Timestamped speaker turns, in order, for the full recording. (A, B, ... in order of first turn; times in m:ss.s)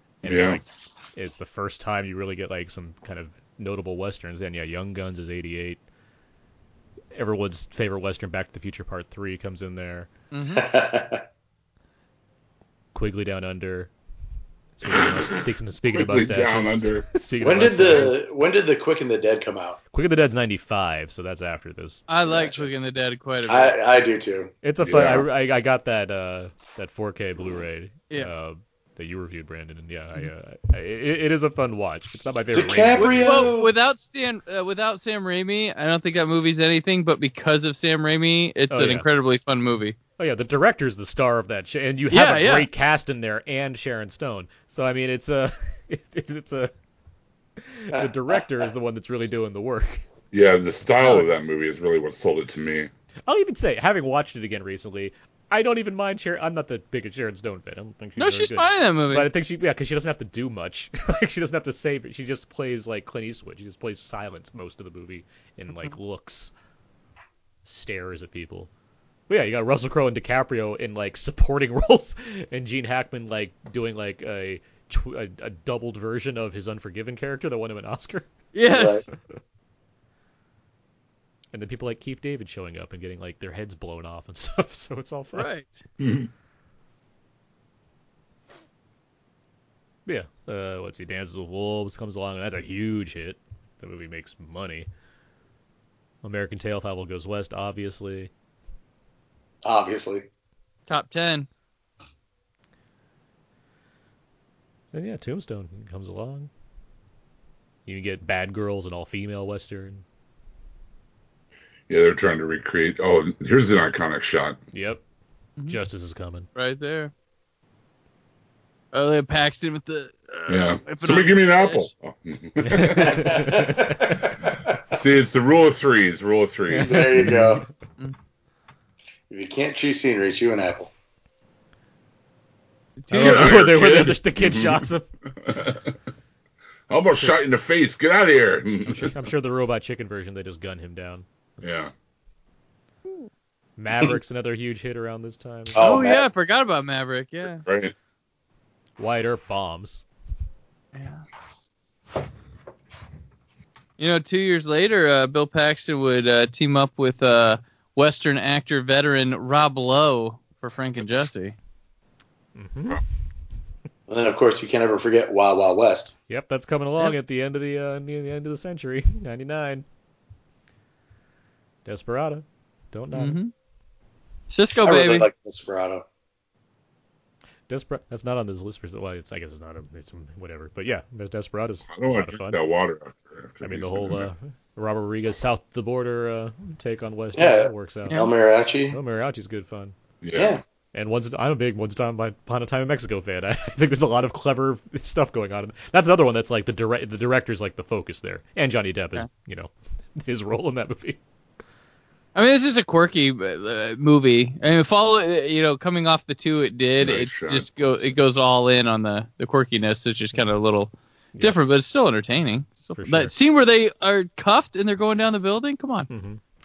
0:00.2-0:05.8 A
0:00.2-0:00.6 B
0:07.1-0:10.1 A
0:10.3-0:10.7 C
0:10.5-0:11.2 D
0:12.9-0:13.9 A
0:14.8-0:18.2 A
0:14.9-0:15.4 B
0:15.9-0:17.1 B
0:17.4-0:19.8 D
0:19.9-0:22.0 A
0:22.1-0:23.8 C
0:22.2-0:22.6 D
0:23.5-0:24.5 D
0:24.6-0:33.5 A
0:24.8-0:25.3 B
0:32.5-0:33.7 D
0:33.2-0:40.0 C
0:38.7-0:39.1 A
0:40.2-0:46.7 A
0:42.1-0:42.7 C
0:47.6-0:50.0 A
0:47.9-0:48.5 D
0:50.3-0:52.9 B
0:51.0-0:51.3 C
0:53.3-1:06.5 A
0:58.2-0:59.3 C
1:07.6-1:08.7 A
1:09.3-1:18.3 A
1:18.5-1:19.0 C
1:18.7-1:19.1 D
1:21.5-1:25.5 A
1:25.3-1:25.8 C
1:26.0-1:26.3 B
1:30.0-1:34.9 A
1:36.2-1:38.3 A
1:39.6-1:40.3 D
1:40.9-1:41.5 C
1:44.9-1:46.5 A
1:47.8-1:50.0 A
1:51.9-1:54.6 B
1:54.7-1:55.0 A
1:55.7-1:56.5 A
1:56.5-1:57.1 C
1:58.9-2:01.9 C
2:00.5-2:03.4 B
2:02.6-2:04.1 A
2:03.0-2:04.7 D
2:04.9-2:07.4 B
2:06.7-2:07.6 A
2:06.8-2:07.6 D
2:09.3-2:10.9 D
2:13.0-2:13.9 C
2:13.1-2:15.1 A
2:13.2-2:14.8 B
2:15.4-2:15.9 B
2:16.9-2:19.2 B
2:18.8-2:21.2 A
2:21.6-2:21.9 B
2:23.8-2:25.8 A
2:25.7-2:26.2 D
2:25.8-2:27.6 C
2:27.6-2:27.9 B
2:29.0-2:30.0 A
2:30.9-2:31.2 C
2:34.0-2:41.6 C
2:42.5-2:43.0 A
2:44.1-2:46.1 D
2:46.3-2:49.8 A
2:51.8-2:53.4 A
2:53.1-2:53.5 C
2:54.5-2:55.3 C
2:54.8-2:56.0 D
2:57.7-3:02.6 A
3:01.9-3:04.3 B
3:03.6-3:08.2 A
3:07.3-3:09.0 D
3:08.9-3:09.9 A
3:10.2-3:10.6 B
3:10.3-3:10.6 D
3:10.9-3:21.2 A
3:22.3-3:36.1 C
3:27.0-3:27.7 B
3:32.9-3:33.3 A
3:36.1-3:36.4 A